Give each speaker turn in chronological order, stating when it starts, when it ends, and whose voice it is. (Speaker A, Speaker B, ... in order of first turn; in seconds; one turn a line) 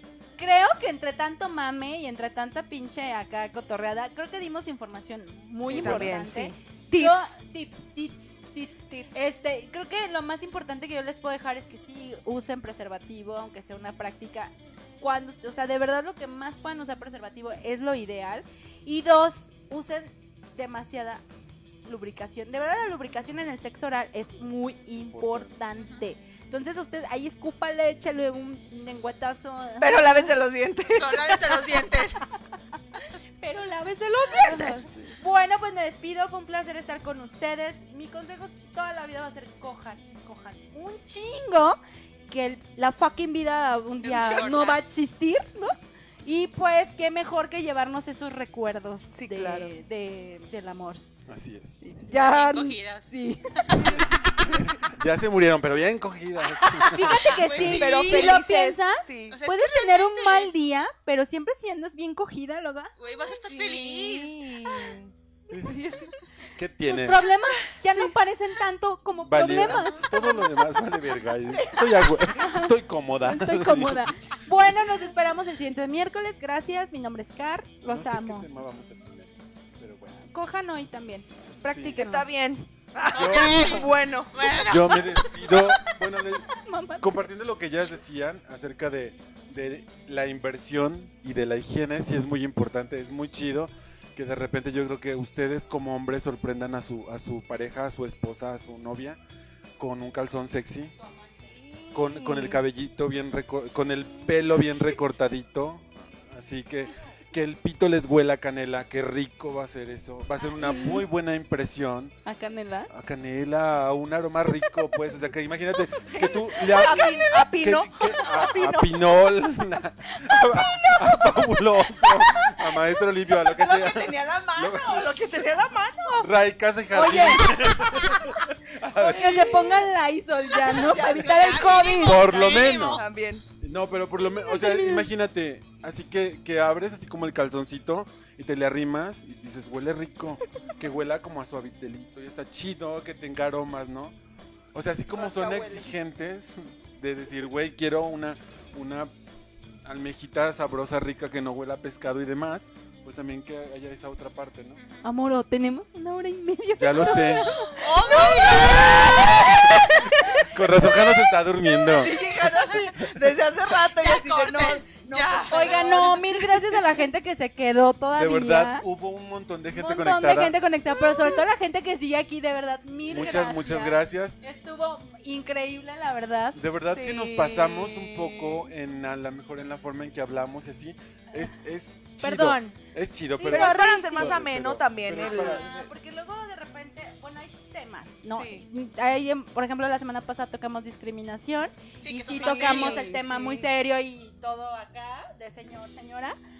Speaker A: 0.4-21.2
Speaker B: 5.6-6.2
Speaker C: 5.7-7.3
Speaker A: 21.9-30.3
Speaker B: 25.1-25.6
Speaker C: 29.8-31.8
Speaker D: 30.9-32.2
Speaker A: 33.4-51.1
Speaker C: 34.4-35.1
Speaker D: 44.0-44.8
Speaker C: 49.1-49.7
Speaker B: 51.3-51.8
Speaker A: 51.8-54.1
Speaker D: 52.1-54.0
Speaker C: 53.8-54.5
Speaker B: 54.5-57.8
Speaker A: 56.7-62.9
Speaker D: 57.1-58.4
Speaker C: 57.5-59.4
Speaker D: 59.3-60.5
Speaker D: 63.0-64.4
Speaker C: 63.2-66.1
Speaker B: 65.5-65.9
Speaker B: 66.5-67.2
Speaker A: 66.8-70.3
Speaker C: 67.8-68.2
Speaker B: 69.2-74.7
Speaker C: 69.6-70.4
Speaker A: 71.7-78.5
Speaker B: 77.8-80.2
Speaker A: 80.2-82.2
Speaker B: 81.6-82.0
Speaker C: 82.0-84.9
Speaker D: 83.0-85.3
Speaker B: 83.1-83.9
Speaker B: 84.6-99.2
Speaker A: 86.5-87.2
Speaker B: 99.8-100.9
Speaker C: 101.5-102.6
Speaker B: 101.9-112.1
Speaker C: 110.6-111.0
Speaker A: 112.2-112.9
Speaker B: 112.9-125.4
Speaker C: 116.1-118.9
Speaker A: 116.8-117.2
Speaker A: 120.4-121.0
Speaker C: 123.4-126.3
Speaker B: 126.2-129.6
Speaker A: 126.9-127.5
Speaker C: 127.9-128.2
Speaker C: 129.0-129.9
Speaker A: 129.0-132.3
Speaker C: 130.6-131.8
Speaker D: 131.0-133.1
Speaker B: 132.0-133.0
Speaker C: 132.6-133.4
Speaker B: 133.6-144.1
Speaker A: 134.3-135.1
Speaker B: 144.7-149.1
Speaker C: 145.1-145.9
Speaker B: 149.8-154.8
Speaker D: 154.8-155.1
Speaker A: 155.0-160.4
Speaker B: 156.8-157.5
Speaker D: 157.5-159.7
Speaker C: 158.0-159.6
Speaker B: 159.8-163.1
Speaker C: 161.9-167.0
Speaker D: 163.8-166.1
Speaker A: 165.5-168.8
Speaker B: 168.2-170.6
Speaker A: 169.7-176.6
Speaker C: 170.9-171.4
Speaker B: 173.1-174.4
Speaker B: 176.5-185.7
Speaker C: 176.9-178.7
Speaker A: 182.2-182.8
Speaker A: 183.3-184.5
Speaker C: 183.4-185.9
Speaker A: 185.1-196.3
Speaker C: 188.3-188.7
Speaker D: 192.0-193.1
Speaker C: 192.3-193.7